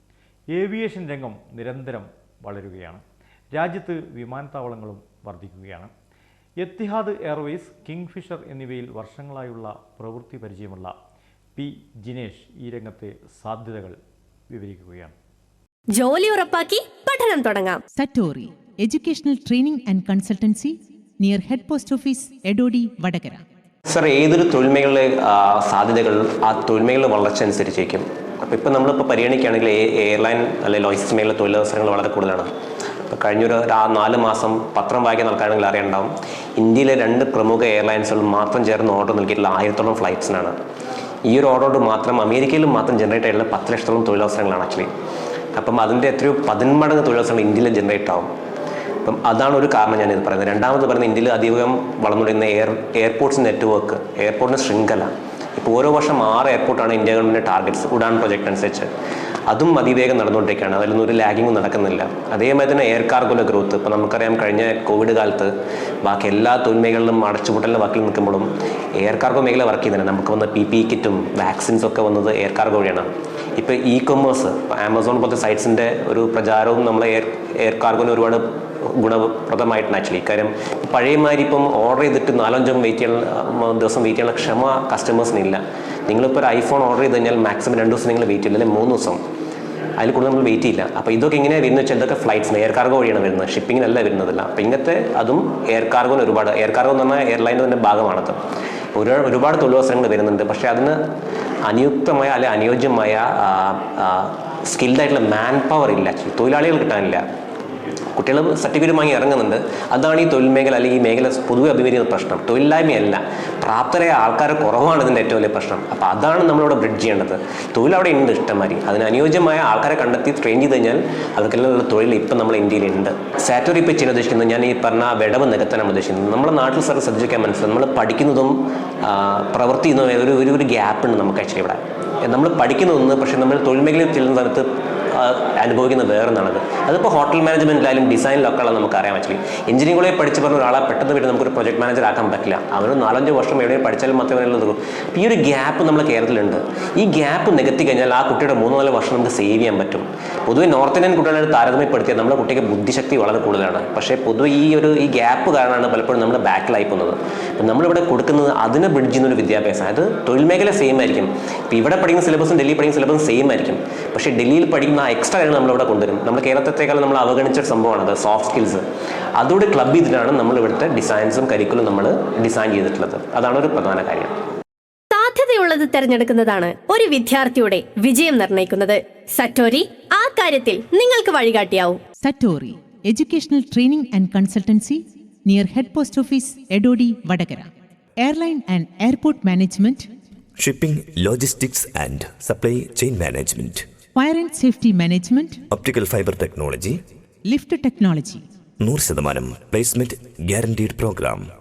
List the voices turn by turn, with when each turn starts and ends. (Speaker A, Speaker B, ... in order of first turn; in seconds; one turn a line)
Speaker A: 0.5-3.0
Speaker A: 3.5-5.9
Speaker A: 6.6-10.9
Speaker A: 11.6-14.0
Speaker A: 14.5-15.2
Speaker B: 15.9-17.8
Speaker C: 17.9-23.4
Speaker D: 23.9-32.5
Speaker D: 33.1-40.5
Speaker D: 41.3-44.9
Speaker D: 45.6-48.3
Speaker D: 49.0-58.9
Speaker D: 59.5-65.5
Speaker D: 66.0-78.4
Speaker D: 79.0-89.2
Speaker D: 90.0-98.4
Speaker D: 99.0-101.0
Speaker D: 101.7-107.2
Speaker D: 108.2-168.8
Speaker D: 169.4-174.3
Speaker B: 175.1-182.0
Speaker C: 182.2-190.1
Speaker E: 190.6-193.9
Speaker C: 194.2-195.6
Speaker E: 195.7-197.0
Speaker C: 197.4-198.4
Speaker E: 198.8-201.5